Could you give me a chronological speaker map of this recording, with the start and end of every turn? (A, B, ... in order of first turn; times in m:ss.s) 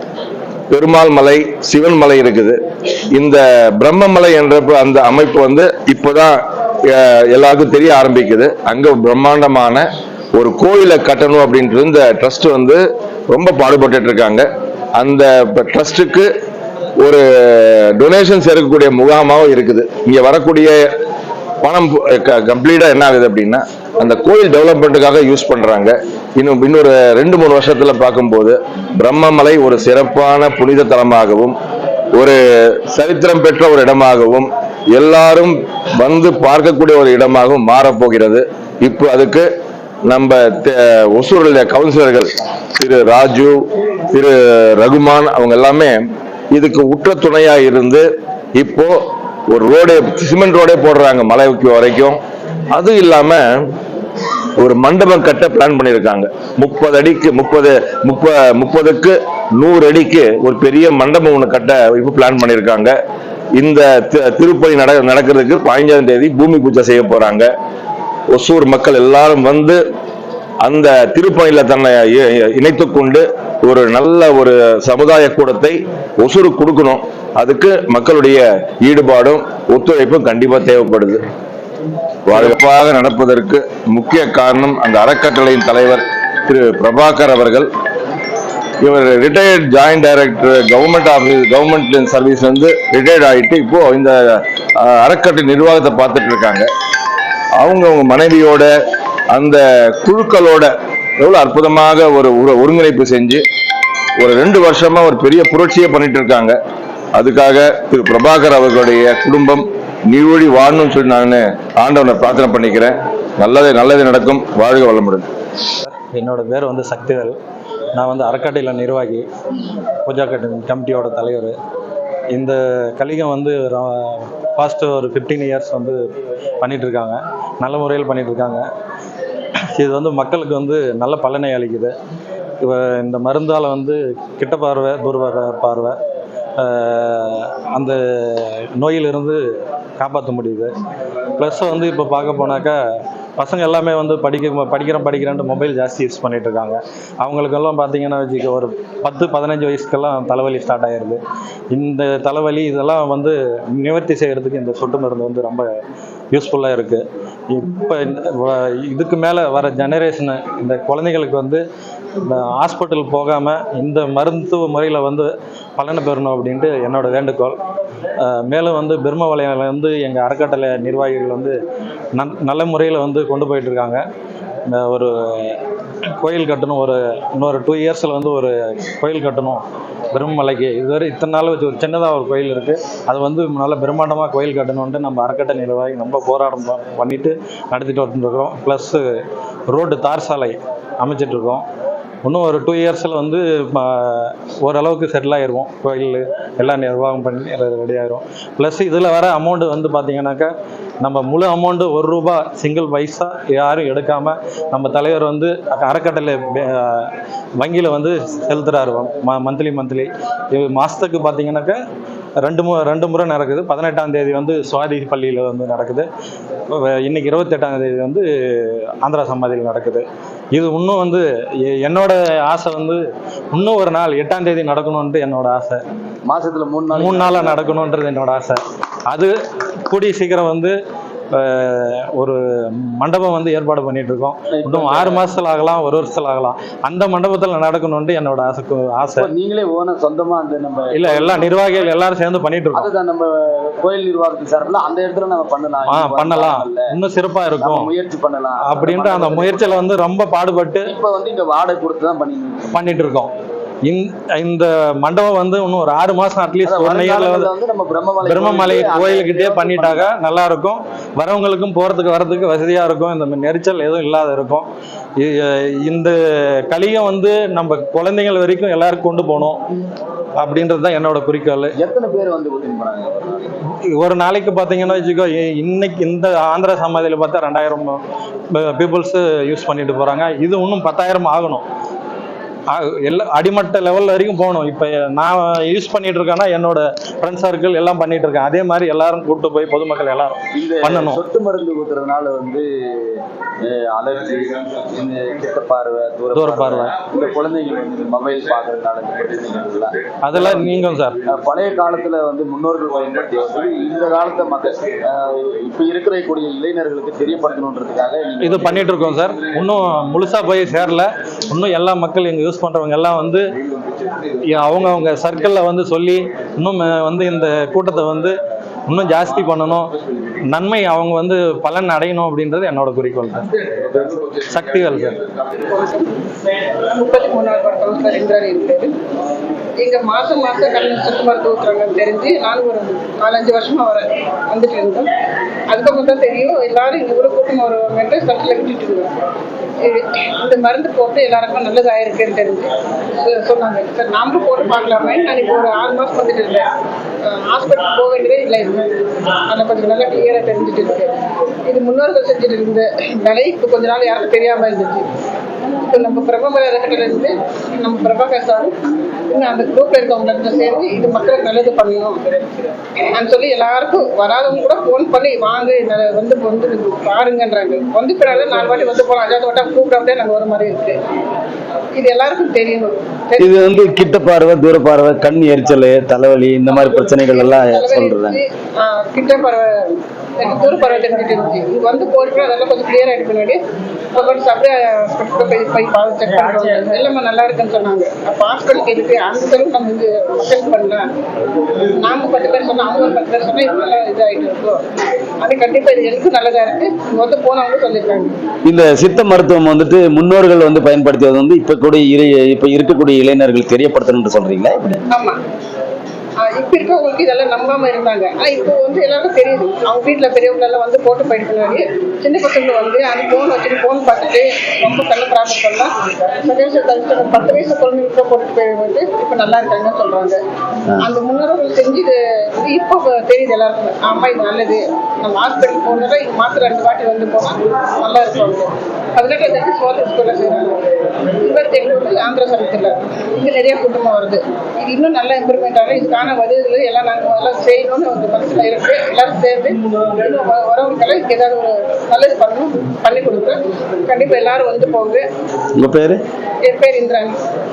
0:00.7-0:06.4 A
0:06.9-0:09.8 A
0:10.3-0:14.4 A
0:15.0-0:16.3 A
0:17.0-0:20.8 A
0:21.6-0:31.6 A
0:32.1-0:39.5 A
0:40.1-0:43.6 A
0:44.1-0:46.0 A
0:46.5-0:48.0 A
0:48.6-0:49.0 A
0:49.5-0:52.2 A
0:52.7-0:53.7 A
0:54.6-1:02.9 A
1:03.6-1:07.5 A
1:08.3-1:09.8 A
1:10.6-1:21.2 A
1:22.3-1:27.7 A
1:28.8-1:36.7 A
1:37.6-1:38.7 A
1:39.3-1:43.4 A
1:44.2-1:46.6 A
1:47.1-1:55.3 A
1:55.8-1:57.4 B
1:58.0-1:59.2 B
2:00.0-2:01.6 B
2:02.3-2:06.0 B
2:06.6-2:08.6 B
2:09.8-2:11.9 B
2:12.6-2:16.0 B
2:16.6-2:19.4 B
2:20.0-2:20.7 B
2:21.4-2:22.8 B
2:23.4-2:31.2 B
2:31.7-2:35.7 B
2:36.3-2:41.6 B
2:42.2-2:47.6 B
2:48.2-2:51.6 B
2:52.2-2:54.0 B
2:54.7-2:55.6 B
2:56.2-3:09.0 B
3:09.7-3:11.6 B
3:12.2-3:31.8 B
3:32.4-3:36.1 B
3:36.7-3:45.8 B
3:46.3-3:47.7 C
3:46.9-3:49.3 B
3:49.9-3:50.8 B
3:51.3-3:59.3 B
3:54.5-3:55.2 C
3:59.2-4:01.6 C
4:00.9-4:02.9 B
4:02.7-4:06.9 C
4:05.9-4:07.9 B
4:07.6-4:09.7 C
4:08.6-4:10.9 B
4:10.9-4:12.8 C
4:12.7-4:13.3 B
4:13.9-4:17.5 B
4:16.6-4:20.1 C
4:18.2-4:24.7 B
4:25.2-4:29.6 B
4:30.4-4:31.7 B
4:31.8-4:33.6 C
4:33.8-4:41.6 B
4:42.7-4:51.2 B
4:50.5-5:08.9 C
4:56.3-4:57.0 B
5:00.2-5:01.2 B
5:08.4-5:13.4 B
5:14.5-5:18.4 B
5:18.9-5:19.9 B
5:20.5-5:25.2 B
5:25.5-5:26.1 D
5:26.9-5:28.9 D
5:29.8-5:35.1 D
5:35.7-5:39.2 D
5:39.8-5:46.7 D
5:47.2-5:51.1 D
5:51.7-5:55.1 D
5:55.8-5:58.7 D
5:59.3-6:11.0 D
6:12.0-6:13.8 D
6:13.4-6:18.4 C
6:16.7-6:23.6 D
6:24.2-6:31.1 D
6:32.0-6:34.8 D
6:35.4-6:38.3 D
6:38.6-6:45.0 C
6:46.5-7:00.4 D
7:01.0-7:10.8 D
7:11.4-7:25.2 D
7:25.8-7:26.2 C
7:26.6-7:27.4 D